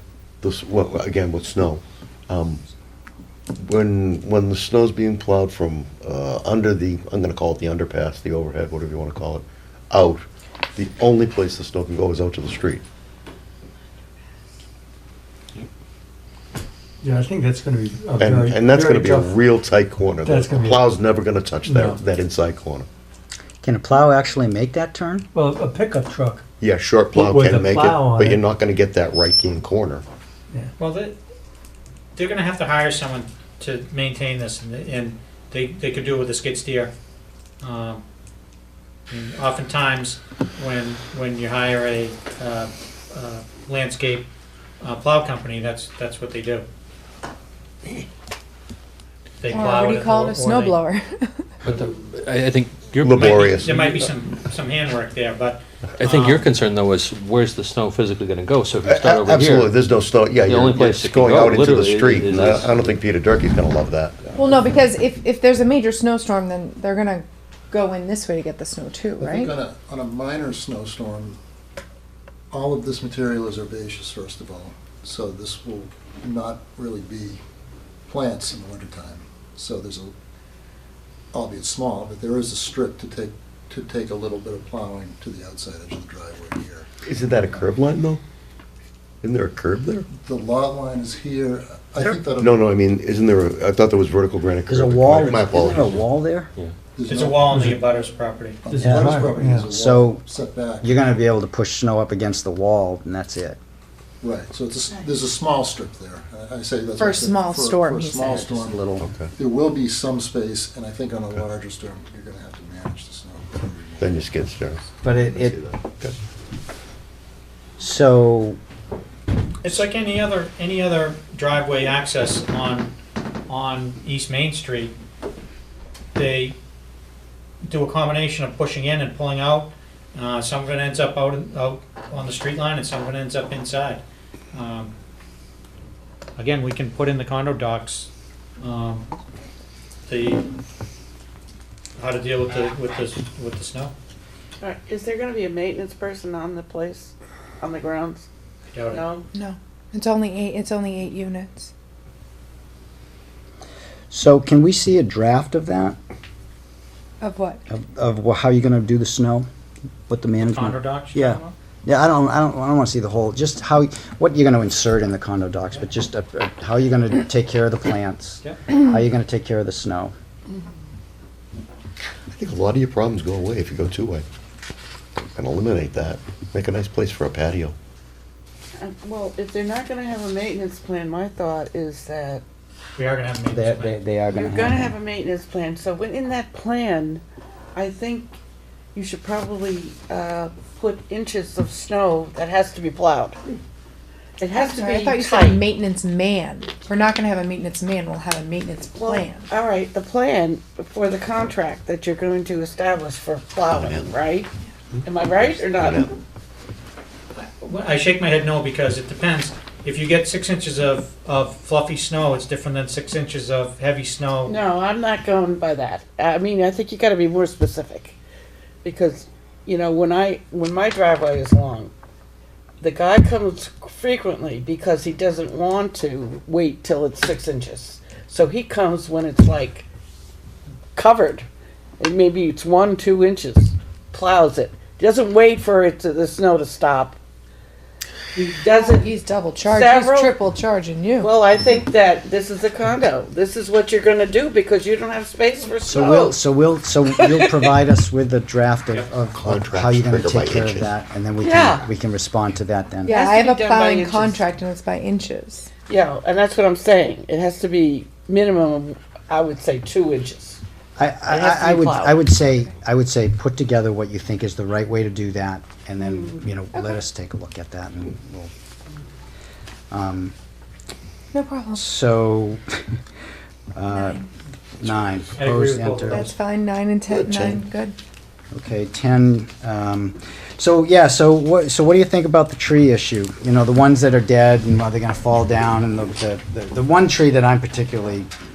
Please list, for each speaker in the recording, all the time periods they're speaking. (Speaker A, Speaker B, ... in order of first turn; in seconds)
Speaker A: 0.4-2.6, 3.5-10.2, 10.8-12.8, 18.2-22.9, 26.6-30.1, 53.0-53.8, 58.8-64.3, 87.0-88.2, 89.2-90.1, 92.0-96.0, 109.0-109.3, 114.0-116.2, 172.3-174.2, 175.3-177.8, 203.7-204.1, 204.9-206.1, 249.3-250.9, 277.1-277.6
Speaker B: 17.0-19.4, 20.2-20.8, 21.6-22.0, 25.3-26.4, 27.1-28.4, 97.5-97.8, 98.7-99.7
Speaker C: 23.6-25.3, 94.7-96.5, 98.8-100.2, 100.8-103.6, 108.4-109.0, 115.0-115.6, 117.8-118.6, 154.1-156.0, 157.7-159.5, 160.1-170.1, 183.5-184.9, 245.8-253.1, 261.0-268.5, 269.9-270.3, 271.8-272.6, 273.8-274.2, 274.8-276.3, 278.5-288.3
Speaker D: 30.8-31.2, 32.2-36.9, 37.6-38.0, 39.1-44.3, 44.8-46.6, 49.4-50.8, 53.2-56.5, 97.1-98.7, 119.6-122.9, 123.5-125.0, 126.2-126.6, 127.7-134.0, 134.5-134.9, 136.4-139.1, 140.1-140.5, 142.0-143.9, 148.7-149.0, 160.4-161.5, 183.0-184.0, 207.3-214.6, 275.4-276.2
Speaker E: 49.5-51.5, 64.3-69.5, 107.0-108.5, 149.3-151.7, 157.2-157.6, 194.5-199.5, 238.7-241.3, 253.1-255.7, 271.3-271.8, 273.9-274.2, 276.1-278.0
Speaker F: 51.6-53.2, 56.0-59.7, 60.5-62.8
Speaker G: 69.2-71.4, 72.5-77.4, 78.1-80.1, 81.3-86.9, 90.1-92.7, 96.9-97.9, 98.7-100.9, 104.2-114.3
Speaker H: 144.6-148.3, 148.9-149.3, 178.8-182.4, 184.3-187.2, 187.7-188.3, 188.9-193.4, 194.4-195.7, 198.9-204.5, 205.0-206.1, 214.4-218.2, 218.8-221.9, 222.8-229.8, 230.9-231.5, 232.0-237.2, 238.3-239.1, 239.7-240.4, 241.2-246.4, 247.2-247.7, 251.4-251.9, 253.1-254.4, 255.9-260.6, 261.3-262.2